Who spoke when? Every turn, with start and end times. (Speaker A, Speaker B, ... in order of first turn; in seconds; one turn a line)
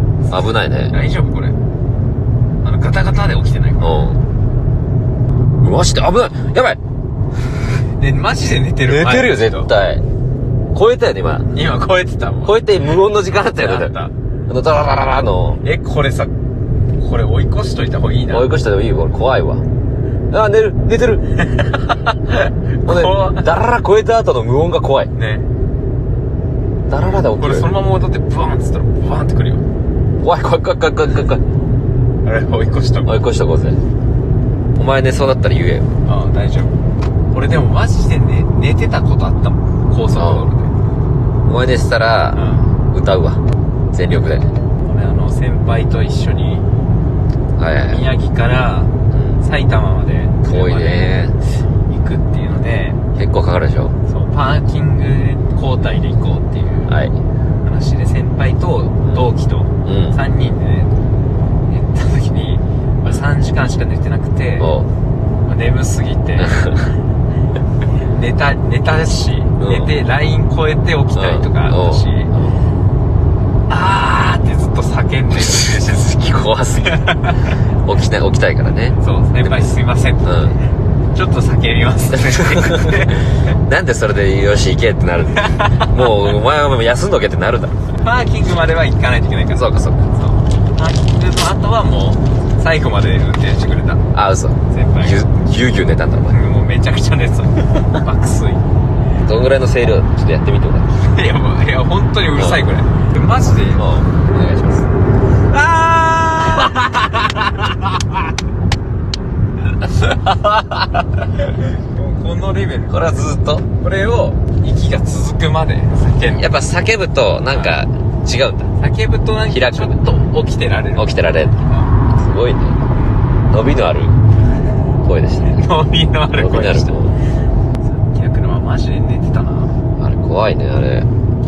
Speaker A: 0.2-1.6
Speaker B: 0.3-0.9
Speaker A: 2.6-4.0
Speaker B: 3.8-4.2
Speaker B: 5.6-6.8
Speaker A: 8.0-9.7
Speaker B: 8.9-10.0
Speaker B: 10.7-11.5
Speaker A: 11.5-12.6
Speaker B: 12.4-13.9
Speaker A: 13.6-14.1
Speaker B: 14.5-15.6
Speaker A: 15.6-16.3
Speaker A: 17.0-18.5
Speaker B: 18.3-19.6
Speaker B: 20.3-21.3
Speaker A: 21.4-23.4
Speaker B: 22.8-25.1
Speaker A: 25.1-25.4
Speaker B: 26.9-27.7
Speaker A: 27.3-29.6
Speaker B: 30.2-31.4
Speaker A: 32.2-33.2
Speaker B: 33.0-33.8
Speaker B: 34.8-35.9
Speaker A: 36.0-36.7
Speaker A: 37.3-40.7
Speaker B: 40.1-40.5
Speaker B: 41.5-42.4
Speaker A: 42.3-42.7
Speaker B: 42.9-43.4
Speaker B: 43.9-44.5
Speaker A: 44.8-46.6
Speaker B: 47.6-48.0
Speaker A: 47.9-51.2
Speaker B: 49.1-49.4
Speaker B: 50.5-51.3
Speaker A: 51.9-53.0
Speaker B: 53.2-53.9
Speaker A: 54.0-57.0
Speaker B: 56.9-57.1
Speaker A: 57.6-60.9
Speaker B: 59.8-60.2
Speaker A: 61.7-64.7
Speaker B: 64.6-64.9
Speaker A: 65.5-66.8
Speaker B: 66.4-66.8
Speaker A: 68.1-72.3
Speaker B: 69.6-69.9
Speaker B: 71.1-72.5
Speaker A: 73.7-76.1
Speaker B: 75.5-77.1
Speaker A: 76.9-77.5
Speaker B: 77.8-79.7
Speaker A: 79.0-80.5
Speaker B: 80.2-80.5
Speaker A: 81.1-83.3
Speaker B: 82.3-83.0
Speaker B: 83.7-87.7
Speaker A: 85.4-86.0
Speaker A: 88.0-94.0
Speaker B: 89.5-90.1
Speaker B: 94.1-96.4
Speaker A: 94.7-95.3
Speaker A: 96.3-98.6
Speaker B: 99.2-100.9
Speaker A: 101.0-103.8
Speaker B: 102.3-102.6
Speaker B: 103.8-104.9
Speaker A: 105.5-107.7
Speaker A: 109.8-110.5
Speaker A: 111.2-116.5
Speaker B: 112.9-113.6
Speaker B: 116.3-118.7
Speaker A: 117.5-117.8
Speaker A: 118.8-121.9
Speaker B: 119.5-120.0
Speaker B: 121.0-121.6
Speaker B: 122.1-122.8
Speaker B: 123.5-124.1
Speaker B: 125.0-125.6
Speaker A: 125.4-126.9
Speaker B: 126.3-127.1
Speaker A: 127.8-129.8
Speaker B: 130.0-131.1